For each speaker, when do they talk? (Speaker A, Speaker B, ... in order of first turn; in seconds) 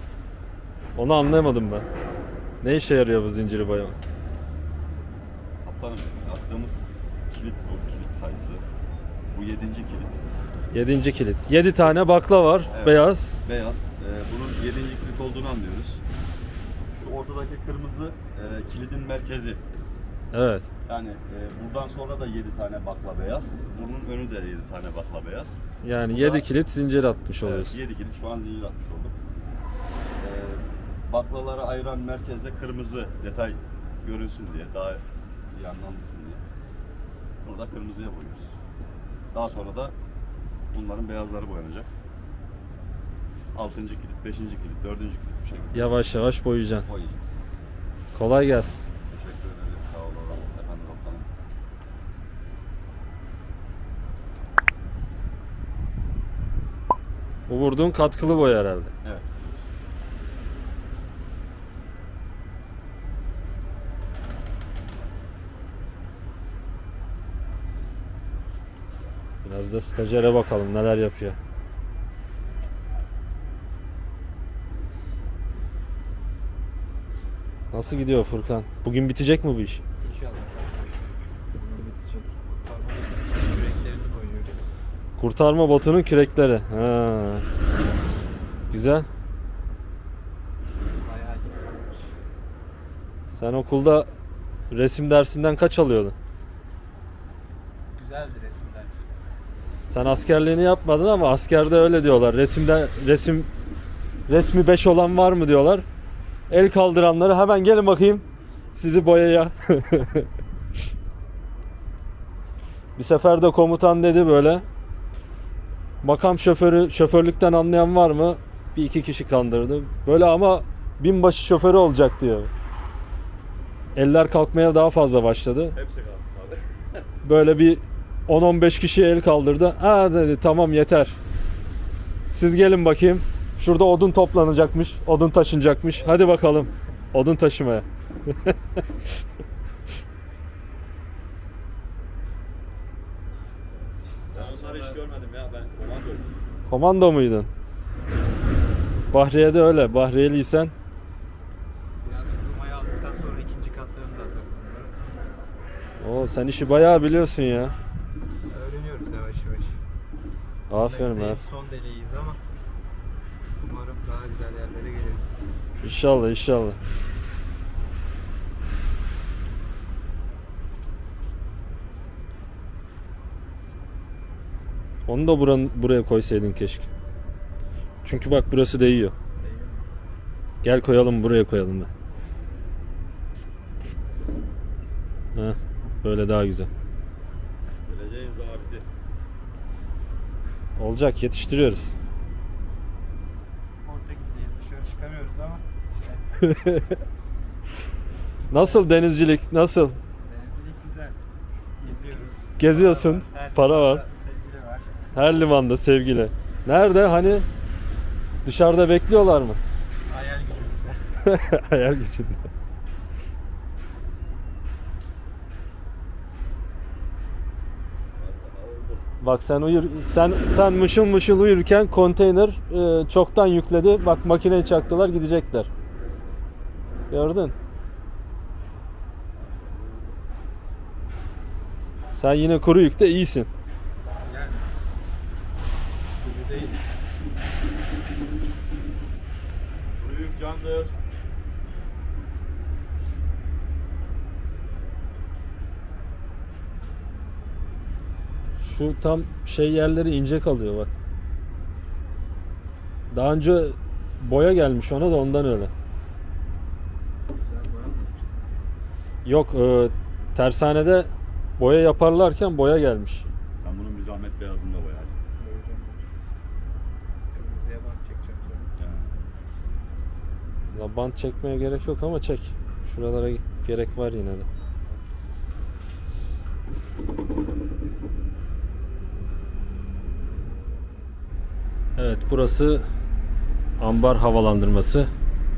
Speaker A: 0.9-1.9, 2.6-4.0, 10.7-13.4, 20.3-20.7, 25.8-27.8, 45.7-46.9, 48.1-48.8, 57.5-58.9, 69.4-71.4, 77.7-79.8, 85.2-87.5, 88.7-89.1, 93.3-94.1, 94.7-96.1, 99.9-103.5, 104.3-105.8, 106.5-110.3, 113.0-114.7, 116.0-122.5, 123.9-125.8, 127.2-131.2, 132.3-138.8, 146.7-147.5, 149.1-150.7, 156.0-157.8, 160.7-161.4, 165.8-166.8, 175.1-176.9, 178.0-179.1, 180.6-181.9, 185.3-186.7, 190.8-191.9, 196.4-197.0, 198.5-200.0, 202.6-204.0, 205.1-207.5, 208.4-209.6, 211.2-212.5, 219.2-225.7, 227.1-227.5, 232.1-233.5, 248.6-250.9, 253.1-255.7, 259.2-263.3, 270.7-274.5, 282.0-282.9, 283.8-285.1
Speaker B: 5.6-8.6, 9.3-10.2, 12.7-16.0, 16.9-19.6, 20.9-25.6, 26.1-26.5, 27.4-29.2, 30.2-36.4, 37.4-38.6, 39.3-39.9, 40.7-41.9, 43.5-45.9, 46.8-47.4, 49.1-51.3, 59.0-59.4, 125.7-127.0, 144.3-146.3, 187.8-188.8, 218.2-219.1, 229.3-230.2, 240.0-240.9, 263.6-265.1, 268.8-269.1
Speaker C: 80.0-84.6, 91.0-92.1, 97.9-99.1, 144.0-145.0, 152.0-154.9, 158.5-159.8, 160.7-162.4, 163.6-165.5, 179.4-179.8, 193.8-196.3, 198.4-198.9, 200.2-201.2, 201.8-205.1, 210.1-211.0, 234.2-234.7, 236.2-237.0, 257.3-258.5, 265.4-266.1, 267.3-268.7